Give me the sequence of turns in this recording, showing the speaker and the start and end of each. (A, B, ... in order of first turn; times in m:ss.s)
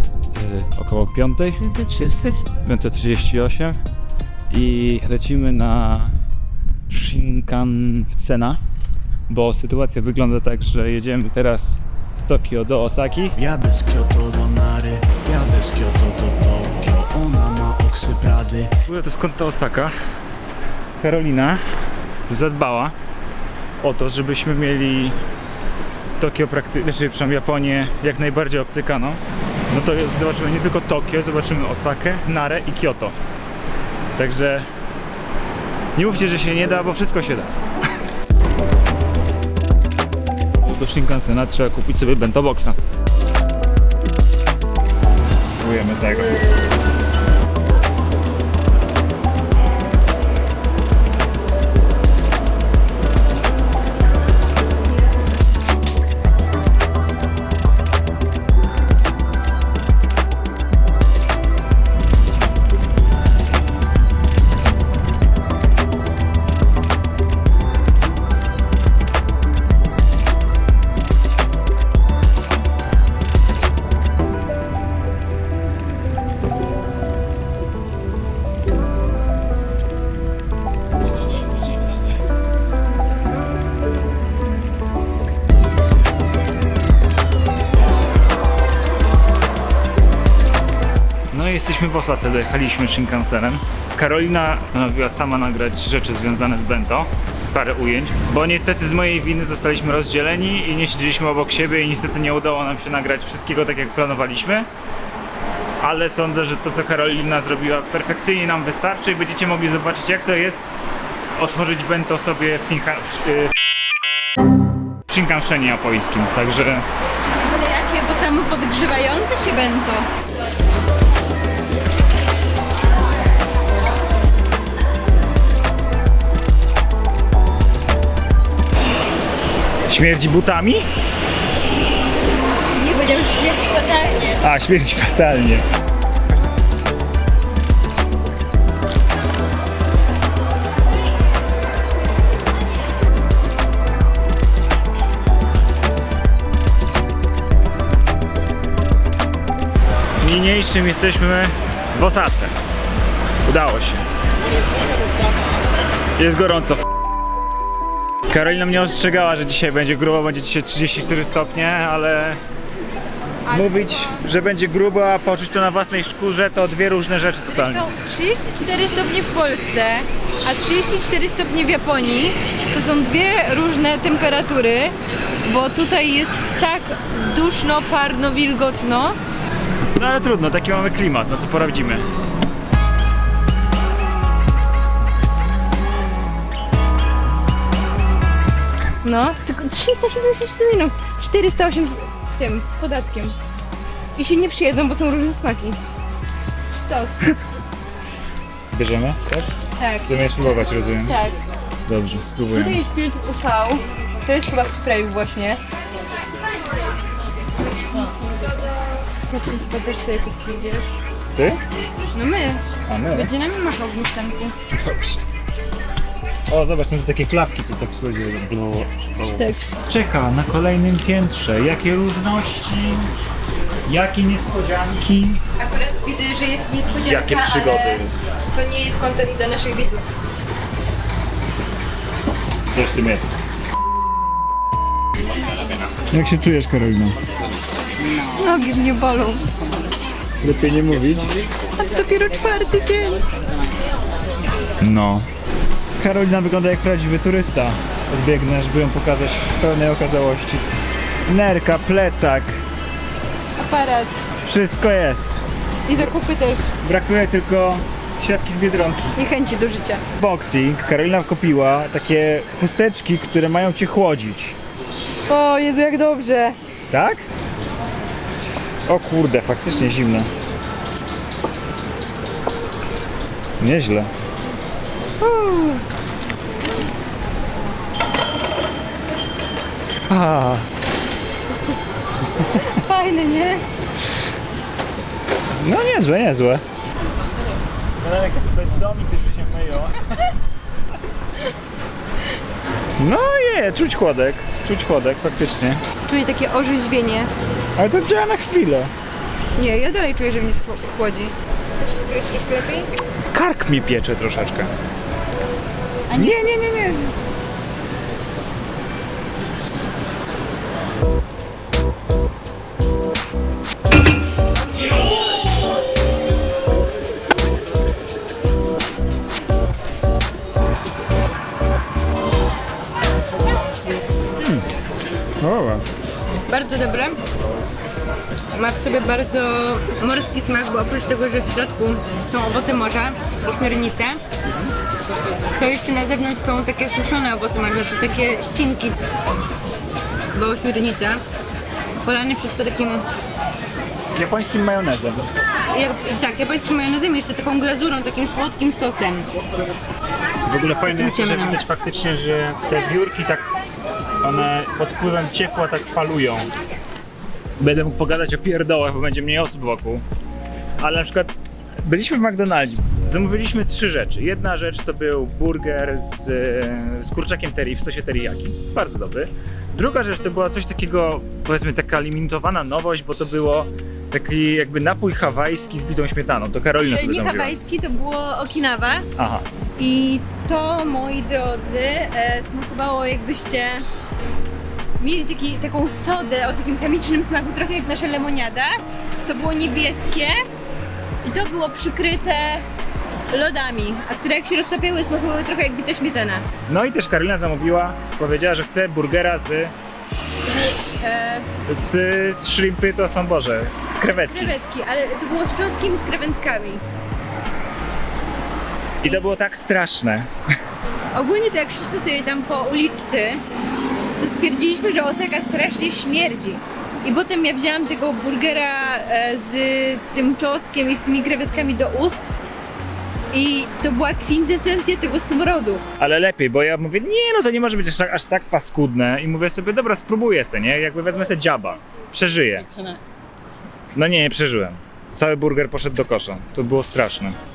0:00.3-0:01.6 A
0:01.6-0:02.5 B
0:02.6-0:03.8 A
0:04.5-0:06.2 A
0:06.9-0:08.6 A
0:09.3-0:13.4 A
0:13.4-0:18.7 C
0:18.8-0:19.9 A
0:21.0-0:21.6 A
0:22.3-0:22.9 A
0:23.8-0:25.2 A
0:26.2-0:33.2 A
0:34.2-0:34.7 A
0:36.0-0:37.5 A
0:40.6-0:42.8 A
0:45.6-0:46.4 A
1:31.3-1:44.7 A
1:45.8-1:50.7 A
1:51.4-1:53.6 A
1:55.1-1:56.9 A
1:57.1-2:00.1 B
2:09.9-2:10.9 A
2:12.7-2:14.4 B
2:14.4-2:15.6 A
2:30.2-2:32.5 A
2:33.4-2:34.0 A
2:36.2-2:36.8 A
2:38.3-2:42.4 A
2:43.5-2:44.2 B
2:43.5-2:47.9 A
2:47.5-2:59.2 B
3:00.0-3:02.1 A
3:09.0-3:13.4 B
3:14.2-3:15.8 B
3:16.7-3:17.4 B
3:18.7-3:19.5 A
3:19.8-3:21.4 B
3:20.1-3:21.2 A
3:21.8-3:22.8 A
3:22.5-3:25.6 B
3:29.3-3:31.0 B
3:31.4-3:31.6 A
3:32.1-3:34.6 B
3:32.9-3:33.3 A
3:34.7-3:35.2 A
3:36.5-3:43.1 A
3:43.9-3:45.4 A
3:45.6-3:50.0 B
3:47.0-3:48.1 A
3:52.7-3:53.3 A
3:56.1-3:57.2 A
3:58.3-3:59.5 B
4:00.4-4:01.4 A
4:01.8-4:03.2 B
4:04.8-4:05.3 A
4:06.0-4:10.6 A
4:11.3-4:12.6 A
4:13.6-4:14.1 B
4:14.4-4:15.3 A
4:15.9-4:16.7 B
4:16.8-4:19.2 A
4:19.2-4:20.0 B
4:20.2-4:24.6 A
4:25.3-4:26.6 B
4:26.9-4:27.2 A
4:28.9-4:30.3 A
4:33.6-4:34.1 A
4:35.2-4:35.8 B
4:40.1-4:40.7 A
4:42.5-4:43.6 B
4:45.5-4:46.6 A
4:48.0-4:50.0 A
4:53.0-4:55.8 A
4:56.0-4:57.3 B
4:57.8-4:58.9 A
4:59.6-5:02.9 B
5:03.3-5:04.7 A
5:06.1-5:06.4 B
5:06.1-5:07.1 A
5:24.4-5:24.7 A
5:25.4-5:25.8 A
5:26.5-5:27.2 B
5:28.5-5:34.2 B
5:34.5-5:34.7 A
5:35.6-5:39.0 B
5:40.3-5:41.2 B
5:42.0-5:43.0 B
5:44.2-5:45.3 A
5:45.7-5:49.3 B
5:50.5-5:53.5 A
5:50.8-5:51.6 B
5:54.2-5:56.5 A
5:57.6-6:00.0 A
6:00.8-6:01.3 A
6:01.8-6:17.6 A
6:16.8-6:19.1 B
6:19.2-6:19.5 A
6:19.8-6:23.9 B
6:25.0-6:28.7 B
6:29.2-6:30.4 B
6:31.2-6:32.7 B
6:33.3-6:36.4 B
6:36.7-6:39.7 A
6:40.4-6:41.5 B
6:41.7-6:44.6 A
6:44.1-6:46.8 B
6:49.0-6:50.3 A
6:51.1-6:53.4 B
6:54.2-7:02.3 B
7:03.3-7:05.8 B
7:06.0-7:12.7 A
7:12.6-7:13.0 B
7:14.0-7:17.4 A